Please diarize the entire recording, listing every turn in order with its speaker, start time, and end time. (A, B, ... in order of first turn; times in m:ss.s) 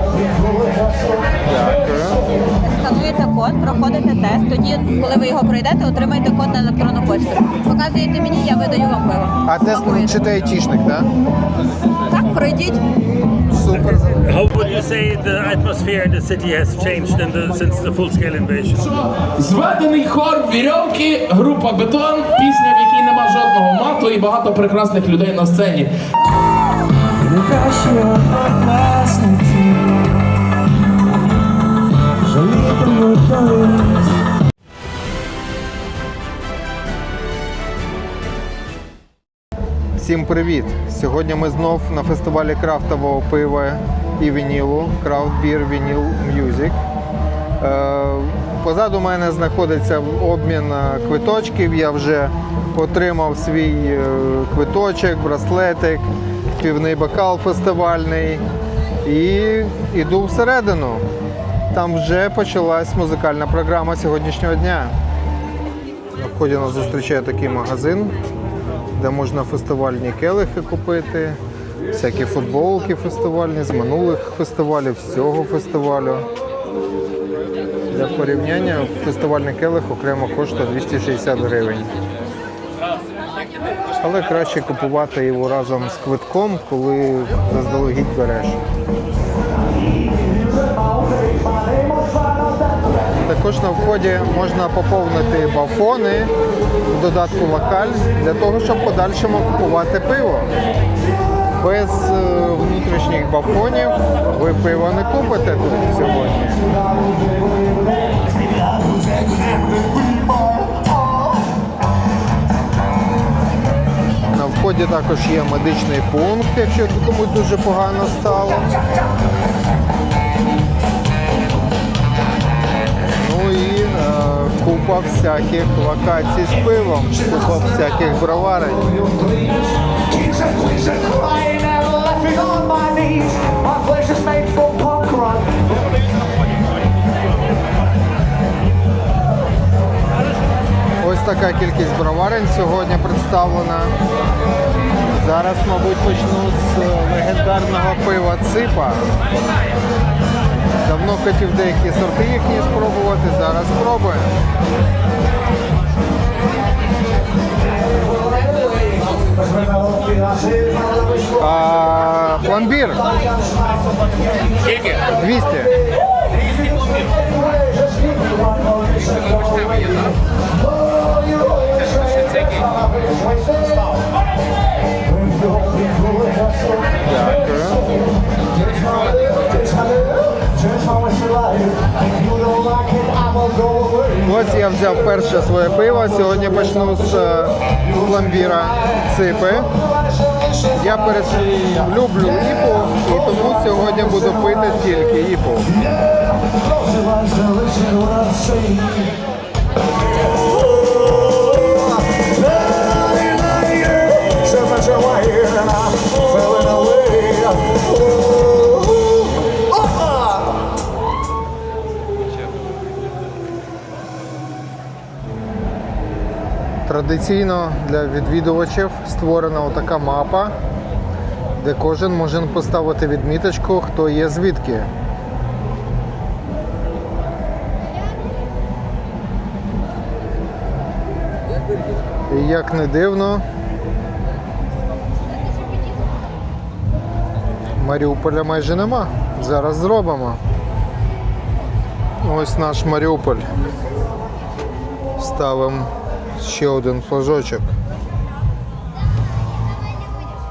0:01.4-0:02.2 A
0:02.6-0:10.2 B
0:09.4-0:11.1 A
0:12.1-0:12.8 B
0:13.5-0:14.3 A
0:14.3-0:18.8 C
0:18.7-0:25.9 D
0:27.2-0:30.2 E
0:32.2-0:34.1 E
0:40.0-0:46.8 A
0:47.6-0:58.4 A
0:59.0-1:01.1 A
1:01.7-1:05.0 A
1:06.1-1:08.1 A
1:08.9-1:11.4 A
1:11.9-1:16.3 A
1:17.9-1:21.9 A
1:24.0-1:28.6 A
1:33.2-1:36.3 A
1:36.9-1:40.5 A
1:41.6-1:46.6 A
1:54.3-1:58.8 A
2:03.1-2:09.0 A
2:11.0-2:13.1 E
2:14.1-2:15.0 E
2:21.0-2:23.9 A
2:25.1-2:29.1 A
2:30.8-2:34.4 A
2:41.3-2:43.2 A
2:44.7-2:45.0 D
2:45.0-2:45.8 A
2:52.0-2:52.6 D
2:57.0-2:57.9 A
3:04.2-3:09.7 A
3:10.7-3:15.8 A
3:17.4-3:18.0 E
3:24.4-3:25.3 E
3:36.8-3:40.5 A
3:41.6-3:44.9 A
3:52.3-3:53.4 A
3:57.7-4:00.4 A
4:02.2-4:03.5 A
4:05.2-4:07.7 A